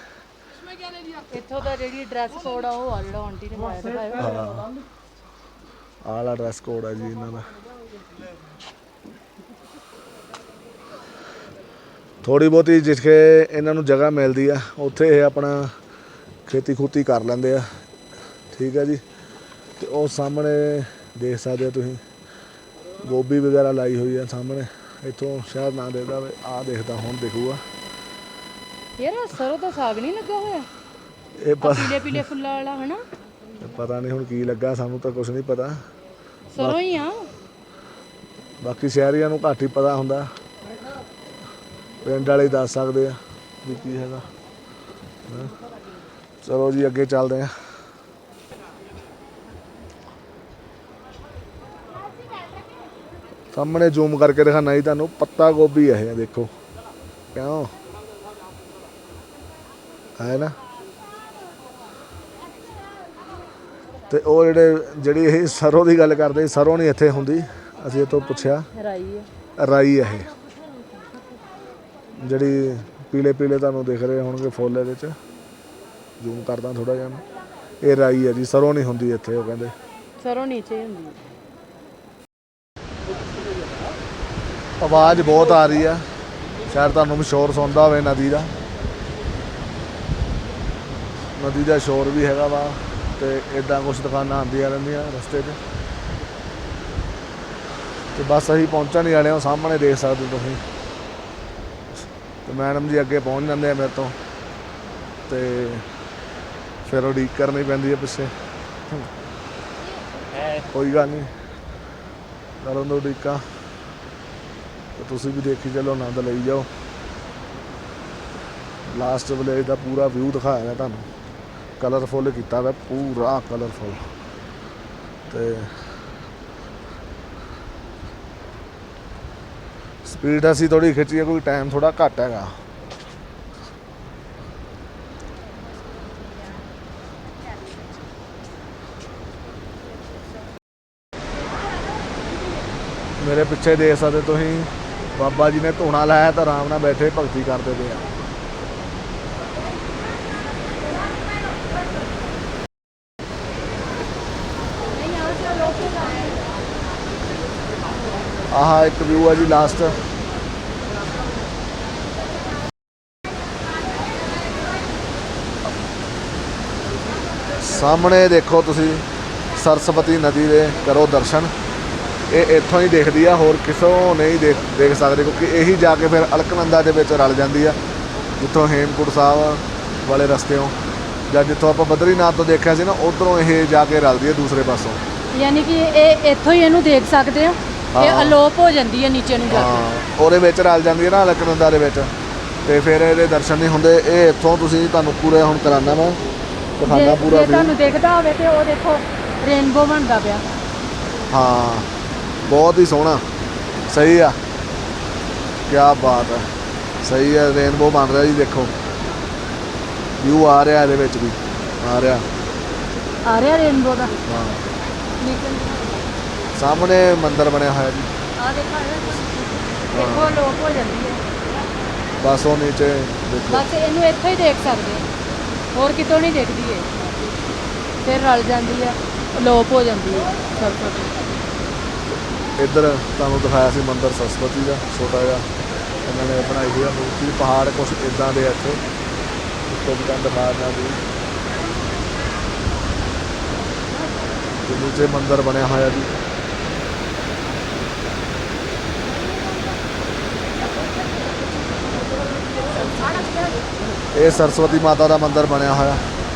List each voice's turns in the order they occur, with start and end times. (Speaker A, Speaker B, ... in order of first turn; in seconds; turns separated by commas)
Speaker A: 1.1-4.4, Speaker B: 4.2-4.7, Speaker B: 6.0-7.5, Speaker B: 12.2-15.8, Speaker B: 16.5-17.8, Speaker B: 18.5-19.0, Speaker B: 19.8-22.0, Speaker B: 23.0-27.6, Speaker A: 29.0-30.7, Speaker B: 31.4-32.2, Speaker A: 31.6-33.0, Speaker B: 33.6-35.8, Speaker A: 36.5-37.3, Speaker B: 38.6-40.3, Speaker B: 42.0-44.3, Speaker B: 45.3-45.5, Speaker B: 46.4-47.5, Speaker B: 53.5-56.5, Speaker B: 57.3-57.7, Speaker B: 60.2-60.6, Speaker B: 64.1-68.7, Speaker A: 68.7-69.3, Speaker B: 69.6-70.3, Speaker B: 72.2-75.2, Speaker B: 76.2-77.2, Speaker B: 77.8-79.7, Speaker A: 80.2-81.2, Speaker B: 84.8-86.1, Speaker B: 86.7-88.5, Speaker B: 91.3-95.6, Speaker B: 98.2-100.6, Speaker B: 102.5-104.2, Speaker B: 105.3-105.9, Speaker B: 106.8-108.3, Speaker B: 110.7-111.3, Speaker B: 112.6-113.5, Speaker B: 115.0-116.7, Speaker B: 118.9-121.1, Speaker B: 121.8-124.0, Speaker B: 125.3-125.7, Speaker B: 130.0-132.6, Speaker B: 143.2-148.1, Speaker A: 154.9-156.4, Speaker B: 158.5-160.0, Speaker B: 167.6-171.5, Speaker B: 172.3-177.8, Speaker B: 178.4-180.8, Speaker B: 181.3-185.0, Speaker A: 185.3-189.8, Speaker B: 187.9-188.4, Speaker B: 189.5-192.1, Speaker B: 192.7-196.2, Speaker B: 196.8-197.7, Speaker A: 196.9-200.4, Speaker B: 201.3-201.9, Speaker B: 202.5-203.2, Speaker B: 203.9-204.4, Speaker B: 205.7-206.5, Speaker B: 207.0-208.8, Speaker B: 210.2-212.3, Speaker A: 213.3-214.1, Speaker B: 214.2-214.7, Speaker A: 215.2-216.0, Speaker B: 216.6-218.1, Speaker A: 218.4-221.2, Speaker B: 219.9-220.4, Speaker B: 222.2-223.7, Speaker A: 223.5-225.1, Speaker A: 225.7-226.9, Speaker A: 228.0-231.1, Speaker B: 232.1-235.5, Speaker B: 236.1-238.8, Speaker B: 239.7-241.0, Speaker B: 244.6-246.2, Speaker B: 254.1-256.1